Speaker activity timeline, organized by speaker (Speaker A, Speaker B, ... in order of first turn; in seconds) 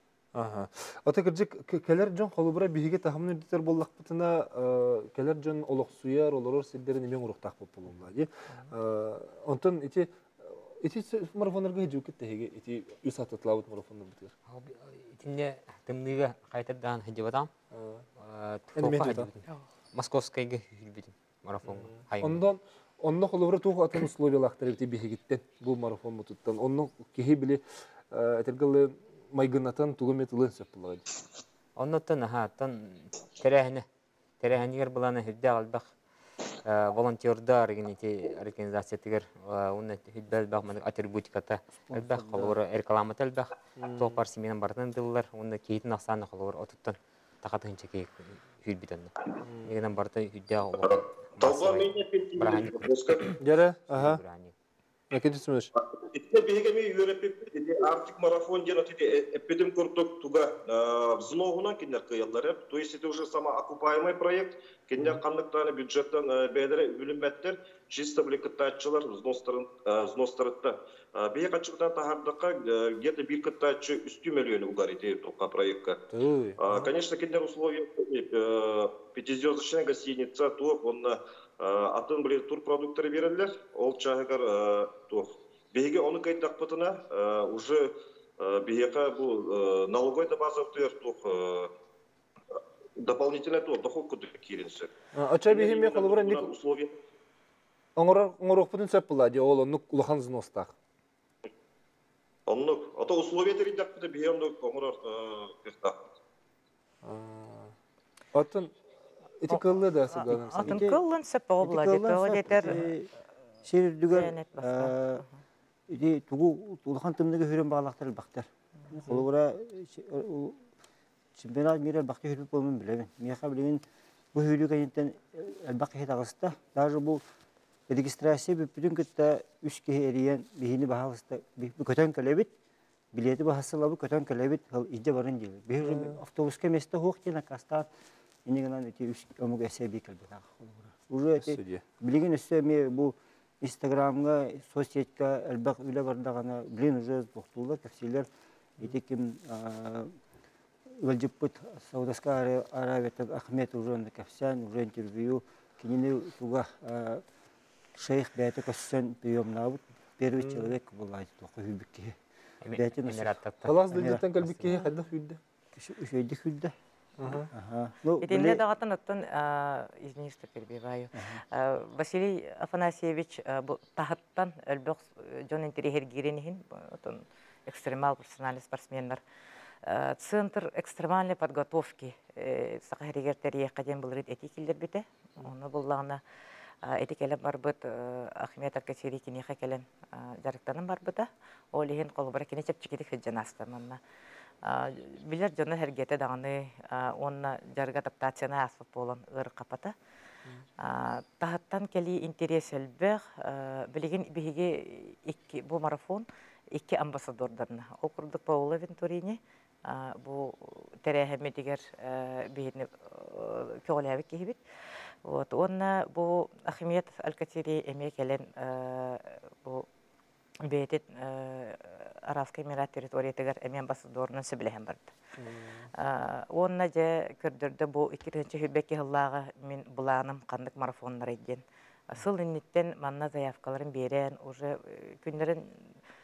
Speaker A: 0.3-14.3, 17.7-18.0, 18.7-19.3, 21.7-31.0, 43.8-44.2, 49.4-49.7, 53.4-54.2, 55.1-55.7, 76.1-76.9, 95.1-96.4, 98.0-100.7, 107.0-107.7, 108.3-108.7, 109.4-110.8, 135.8-136.2, 141.4-141.8, 160.4-160.7, 163.6-165.4, 167.2-167.5, 225.4-225.9
Speaker B: 14.5-17.5, 18.2-19.4, 19.9-22.4, 31.8-33.9, 34.4-35.9, 36.6-49.1, 49.6-52.9, 53.9-54.5, 162.6-164.0
Speaker C: 41.9-42.5, 110.6-111.0, 111.6-113.1, 113.6-115.2, 115.9-120.6, 121.3-123.8, 124.3-127.2, 127.9-132.5, 133.1-137.9, 138.4-148.3, 148.8-150.1, 151.0-157.2, 157.9-162.2, 162.7-163.3, 163.9-164.7, 165.7-166.7, 167.5-168.6, 171.1-171.4
Speaker D: 50.8-53.4, 55.8-76.0, 76.6-91.7, 93.0-94.9, 95.5-97.0, 102.5-106.0
Speaker E: 110.1-112.8, 114.1-115.2, 168.2-179.2, 179.8-186.2, 186.8-194.0, 194.6-199.9, 200.8-214.6, 215.2-219.8, 220.6-225.2, 226.0-235.6